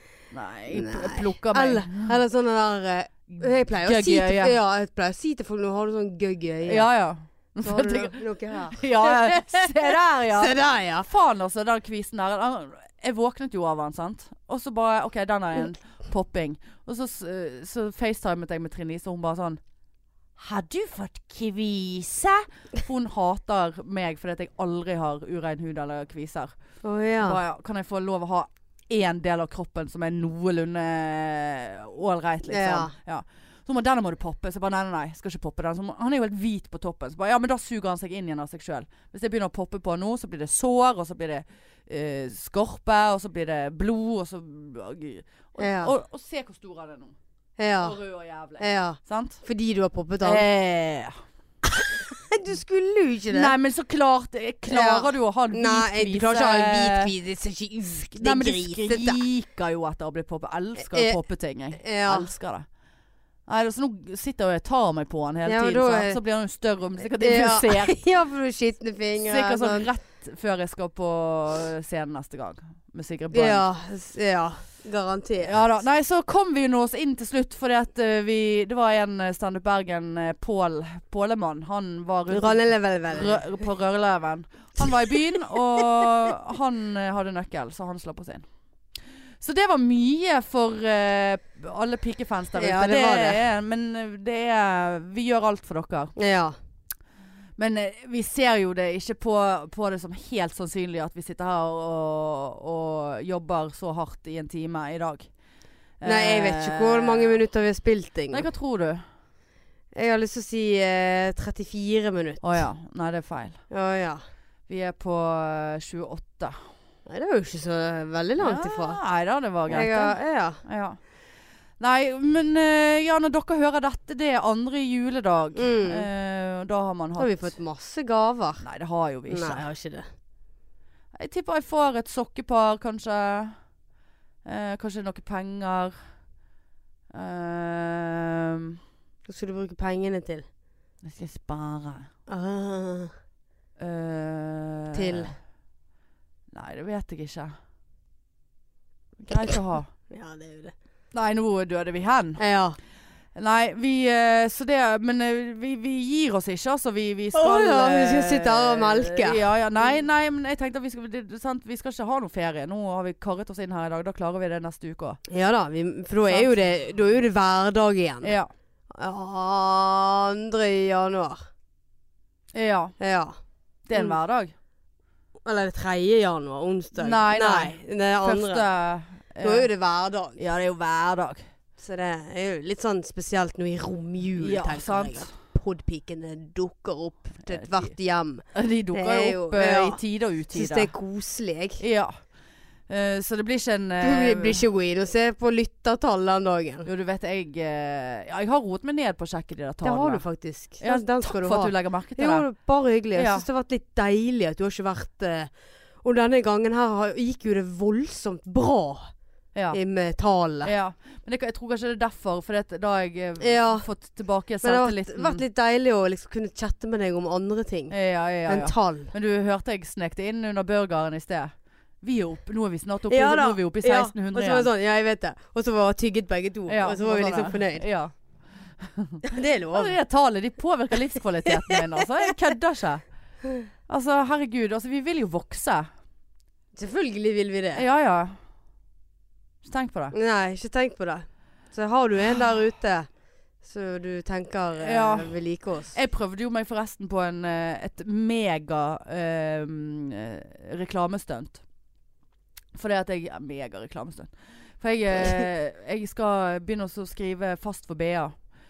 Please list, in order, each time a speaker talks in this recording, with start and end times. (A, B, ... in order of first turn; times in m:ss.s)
0:00.3-0:02.1 A
0:00.7-0:06.9 B
0:03.3-0:04.5 A
0:06.6-0:08.2 A
0:07.6-0:11.1 B
0:08.7-0:19.6 A
0:20.4-0:26.5 A
0:26.8-0:27.4 B
0:27.2-0:47.2 A
0:32.5-0:32.9 B
0:45.6-0:45.9 B
0:47.6-0:48.0 B
0:47.8-0:49.4 A
0:48.6-0:50.4 B
0:50.2-0:51.1 A
0:51.7-0:53.5 B
0:53.3-0:57.1 A
0:54.7-0:59.2 B
0:57.9-1:02.6 A
1:00.8-1:01.2 B
1:01.7-1:02.3 B
1:03.5-1:08.0 A
1:05.4-1:06.2 B
1:07.2-1:09.9 B
1:09.2-1:13.6 A
1:13.3-1:15.6 B
1:15.4-1:28.4 A
1:22.3-1:23.4 B
1:29.4-1:36.1 A
1:32.6-1:33.4 B
1:36.2-1:36.6 B
1:37.6-1:45.3 A
1:46.0-1:47.4 A
1:46.0-1:48.4 B
1:48.3-1:49.0 A
1:49.9-1:52.6 B
1:52.4-1:53.6 A
1:53.7-1:54.2 B
1:54.7-1:56.6 A
1:57.1-1:59.0 B
1:58.4-2:01.0 A
1:59.7-2:00.6 B
2:01.8-2:07.5 A
2:05.6-2:06.1 B
2:07.2-2:08.6 B
2:08.6-2:09.6 A
2:09.3-2:10.1 B
2:11.1-2:13.6 A
2:14.4-2:15.9 A
2:17.1-2:18.8 A
2:19.3-2:20.4 B
2:21.0-2:22.1 A
2:22.3-2:23.1 B
2:23.8-2:25.3 A
2:24.9-2:25.3 B
2:26.5-2:27.5 A
2:29.2-2:29.9 A
2:29.4-2:30.7 B
2:31.1-2:32.4 A
2:32.4-2:32.8 B
2:33.3-2:45.2 A
2:37.3-2:39.4 B
2:45.3-2:48.3 B
2:48.2-2:48.5 A
2:48.9-2:51.4 B
2:52.5-2:52.9 A
2:53.0-2:53.4 B
2:53.9-2:54.5 A
2:55.4-2:58.6 B
2:57.0-2:59.7 A
2:59.4-3:00.4 B
3:00.4-3:01.4 A
3:01.8-3:10.0 B
3:04.4-3:05.3 A
3:07.4-3:07.9 A
3:08.5-3:10.9 A
3:10.5-3:11.8 B
3:11.8-3:12.2 A
3:12.9-3:14.6 A
3:14.0-3:16.9 B
3:16.8-3:20.2 A
3:19.8-3:25.5 B
3:20.8-3:22.5 A
3:23.1-3:23.4 A
3:26.0-3:29.1 B
3:29.7-3:30.7 B
3:30.6-3:35.4 A
3:33.4-3:33.9 B
3:34.6-3:37.9 B
3:37.9-3:41.5 A
3:38.4-3:39.1 B
3:42.0-3:44.7 A
3:43.1-3:47.8 B
3:46.7-3:48.1 A
3:48.8-3:53.0 A
3:49.2-3:49.9 B
3:51.5-3:52.2 B
3:53.9-3:55.9 A
3:56.8-3:57.8 B
3:57.7-3:58.4 A
3:59.6-4:00.1 A
4:00.1-4:03.1 B
4:03.6-4:06.0 B
4:04.8-4:05.3 A
4:05.9-4:11.6 A
4:12.7-4:18.3 A